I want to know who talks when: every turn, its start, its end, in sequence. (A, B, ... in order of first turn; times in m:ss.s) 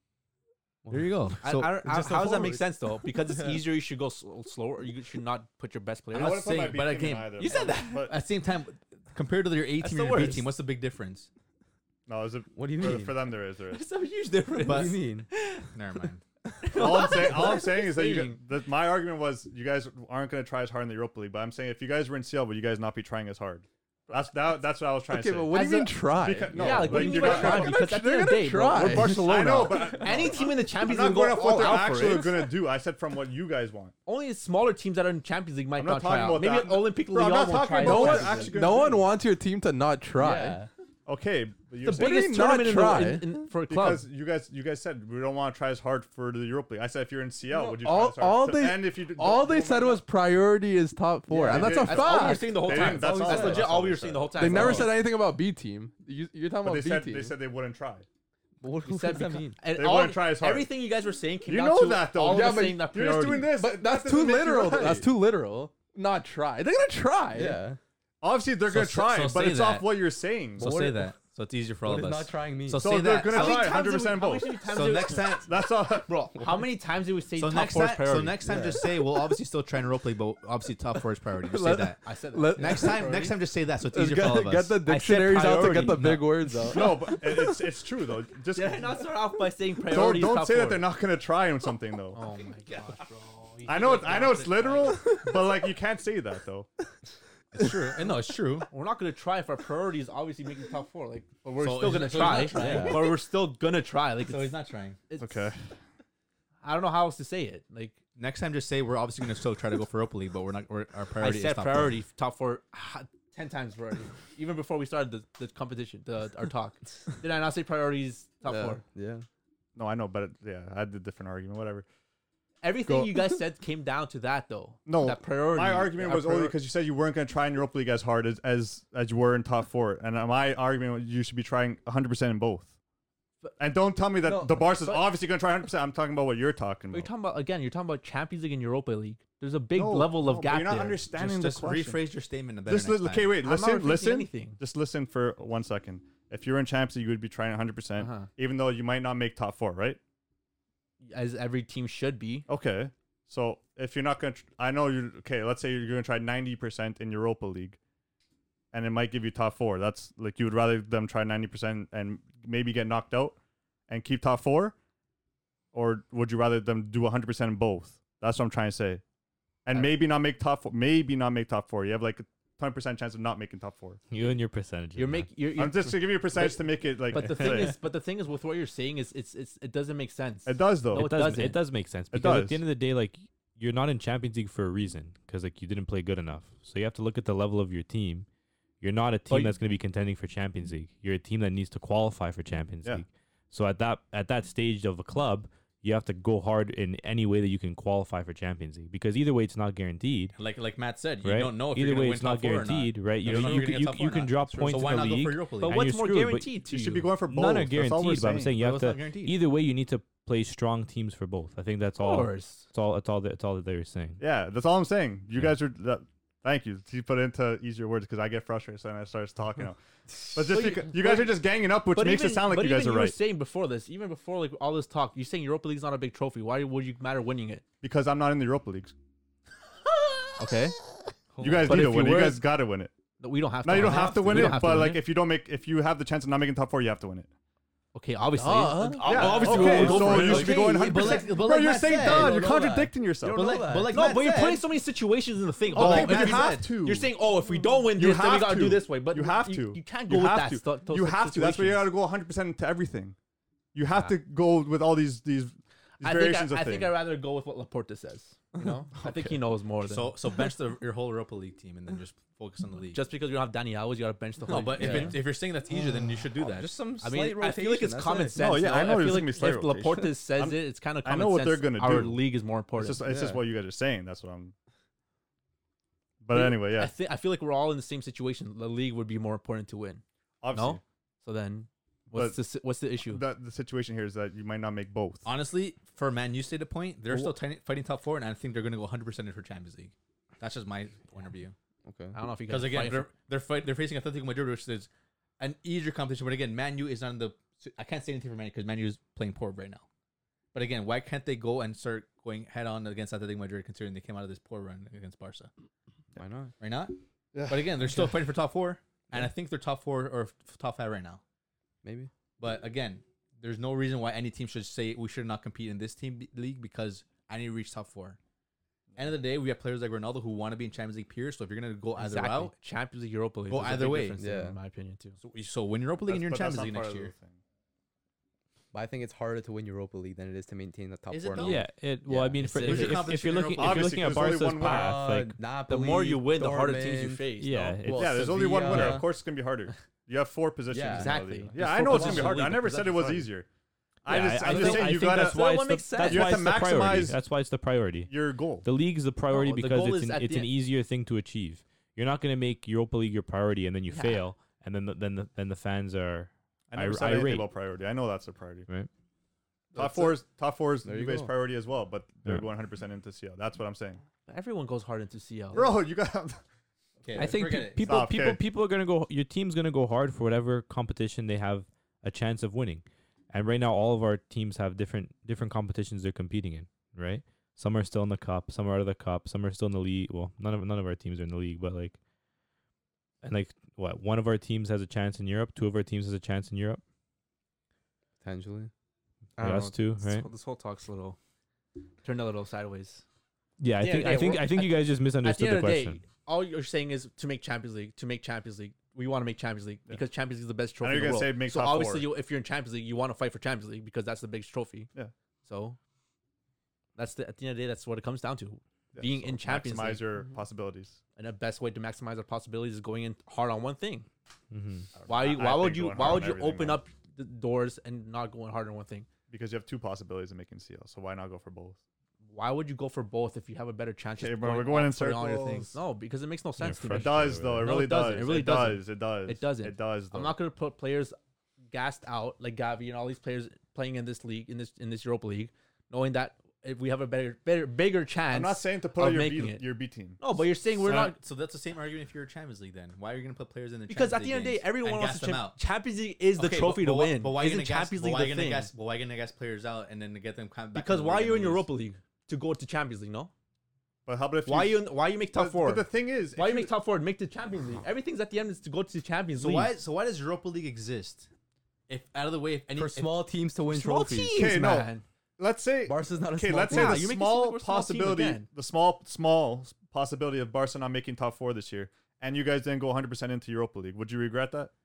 0:00.8-0:01.1 A
0:00.9-0:01.8 B
0:01.4-0:06.8 C
0:01.9-0:02.6 A
0:06.1-0:08.1 D
0:06.1-0:11.3 B
0:07.4-0:08.1 C
0:09.8-0:10.5 C
0:12.1-0:13.8 D
0:12.5-0:13.3 A
0:13.7-0:15.7 C
0:14.6-0:15.3 A
0:14.6-0:15.0 B
0:15.6-0:16.2 B
0:16.6-0:18.4 C
0:16.7-0:27.9 D
0:25.1-0:29.6 E
0:25.5-0:25.9 C
0:26.5-0:32.4 C
0:28.8-0:33.9 D
0:34.0-0:38.6 C
0:35.8-0:39.1 D
0:37.8-0:40.6 E
0:40.2-0:40.7 A
0:41.0-0:42.5 D
0:41.8-0:44.0 C
0:41.9-0:43.4 E
0:43.7-0:50.0 D
0:47.5-0:52.6 E
0:51.3-0:51.8 A
0:51.4-0:55.0 C
0:51.5-0:54.8 D
0:52.7-0:53.7 A
0:54.3-0:57.4 E
0:56.6-0:58.0 D
0:58.6-0:59.5 A
0:58.8-1:03.6 C
0:59.7-1:00.7 D
1:01.4-1:05.1 D
1:02.2-1:07.6 E
1:07.3-1:07.8 A
1:08.2-1:10.7 D
1:08.7-1:09.9 B
1:10.6-1:13.8 B
1:10.6-1:11.1 A
1:11.8-1:12.9 A
1:12.8-1:14.7 D
1:13.3-1:18.4 C
1:14.7-1:15.5 B
1:15.3-1:16.1 D
1:17.4-1:22.0 B
1:18.4-1:18.8 A
1:21.4-1:23.1 E
1:22.0-1:23.4 C
1:22.6-1:24.8 B
1:23.9-1:27.6 E
1:24.8-1:26.2 C
1:25.9-1:26.8 B
1:26.7-1:29.0 D
1:28.5-1:30.9 C
1:29.8-1:32.2 D
1:32.1-1:35.2 C
1:33.6-1:36.7 D
1:37.5-1:38.7 B
1:38.7-1:44.5 C
1:41.6-1:43.2 B
1:42.6-1:43.1 A
1:44.3-1:45.0 B
1:45.1-1:45.4 C
1:45.2-1:45.6 D
1:46.6-1:47.9 C
1:48.2-1:51.9 B
1:51.2-1:58.8 C
1:58.5-1:58.8 E
1:58.9-1:59.2 A
1:59.8-2:01.8 D
2:02.6-2:06.6 C
2:02.9-2:03.2 D
2:04.9-2:12.7 D
2:13.6-2:17.1 D
2:14.2-2:15.2 C
2:16.9-2:21.0 C
2:19.7-2:22.0 D
2:21.1-2:23.3 B
2:22.7-2:30.0 D
2:23.4-2:24.6 C
2:28.0-2:28.3 C
2:31.0-2:32.5 C
2:32.5-2:37.8 D
2:38.7-2:43.4 D
2:43.9-2:44.7 D
2:45.7-2:49.0 D
2:49.6-2:54.0 D
2:49.7-2:50.0 C
2:54.1-2:55.3 F
2:54.9-3:01.6 C
2:55.6-2:57.8 D
3:00.4-3:01.2 D
3:00.9-3:08.2 F
3:02.1-3:02.6 D
3:08.8-3:20.4 F
3:09.3-3:09.5 C
3:20.4-3:25.8 B
3:21.2-3:26.6 F
3:23.3-3:23.6 D
3:25.6-3:27.1 C
3:26.7-3:28.5 D
3:27.2-3:34.2 F
3:28.6-3:29.4 B
3:32.0-3:32.7 C
3:34.2-3:39.8 D
3:40.3-3:47.6 C
3:40.3-3:43.2 D
3:47.8-3:48.9 D
3:50.4-3:50.8 C
3:51.4-3:51.8 F
3:51.4-3:52.9 D
3:51.6-3:52.4 C
3:53.2-3:55.0 C
3:53.6-3:57.3 D
3:53.8-3:54.6 A
3:57.9-4:00.9 C
3:58.4-4:00.1 E
3:59.0-4:03.4 D
3:59.3-4:01.2 A
3:59.8-4:02.5 B
4:01.9-4:04.0 A
4:03.2-4:11.9 C
4:03.3-4:04.6 B
4:05.7-4:06.7 B
4:05.7-4:07.1 D
4:07.9-4:13.2 D
4:13.7-4:16.9 D
4:16.0-4:20.2 C
4:19.0-4:19.3 D
4:19.8-4:23.0 B
4:22.9-4:25.2 C
4:24.5-4:26.8 B
4:24.8-4:25.2 A
4:25.7-4:28.4 A
4:27.0-4:33.0 C
4:28.4-4:34.5 D
4:33.0-4:33.4 A
4:36.2-4:36.9 D
4:36.3-4:43.2 C
4:40.4-4:40.8 D
4:43.0-4:45.2 D
4:45.2-4:51.5 B
4:51.8-4:52.2 A
4:52.1-4:53.1 C
4:52.5-4:54.9 B
4:55.4-4:59.8 B
5:00.5-5:05.5 B
5:06.2-5:06.5 A
5:06.6-5:11.2 B
5:07.3-5:07.7 D
5:11.8-5:12.1 A
5:12.4-5:18.2 B
5:19.0-5:22.5 B
5:22.0-5:25.2 C
5:23.5-5:24.2 B
5:24.2-5:24.6 A
5:25.2-5:27.1 B
5:26.1-5:27.4 D
5:28.7-5:32.4 A
5:31.1-5:31.6 B
5:31.4-5:35.4 F
5:32.4-5:33.1 C
5:32.5-5:34.1 B
5:33.6-5:35.0 D
5:34.6-5:37.2 A
5:35.7-5:37.8 C
5:37.4-5:38.9 F
5:37.8-5:39.1 A
5:37.9-5:43.5 D
5:40.7-5:41.2 A
5:40.9-5:43.3 C
5:41.9-5:42.5 A
5:44.0-5:47.2 D
5:44.1-5:48.1 F
5:44.4-5:46.5 C
5:48.1-5:48.7 D
5:48.6-5:57.5 F
5:49.3-5:50.5 C
5:49.4-5:49.8 B
5:53.9-5:54.2 C
5:56.7-5:58.7 D
5:59.7-6:04.0 D
6:00.8-6:01.3 A
6:04.2-6:05.8 C
6:05.5-6:06.4 D
6:07.0-6:07.9 B
6:07.1-6:22.0 F
6:07.2-6:08.4 D
6:23.2-6:26.8 F
6:28.2-6:28.7 A
6:29.4-6:31.2 C
6:29.4-6:30.3 F
6:32.0-6:33.0 C
6:33.6-6:36.0 F
6:33.8-6:44.9 C
6:40.8-6:42.1 D
6:45.4-6:45.8 C
6:46.9-6:50.1 C
6:48.9-6:51.0 D
6:51.2-6:54.1 C
6:54.5-6:54.9 F
6:54.9-6:56.8 D
6:55.1-6:59.1 C
6:59.3-7:01.8 D
7:02.3-7:11.2 C
7:04.2-7:05.8 D
7:06.6-7:07.8 F
7:06.9-7:10.4 D
7:11.7-7:19.7 C
7:18.3-7:20.2 D
7:20.2-7:21.2 C
7:20.8-7:25.6 B
7:23.9-7:28.7 C
7:26.4-7:31.7 B
7:30.7-7:33.3 C
7:34.0-7:36.7 D
7:34.4-7:39.7 C
7:39.4-7:41.3 B
7:41.9-7:43.2 B
7:42.8-7:44.4 A
7:43.7-7:45.0 C
7:44.3-7:54.7 D
7:45.9-7:47.1 A
7:46.6-7:48.4 C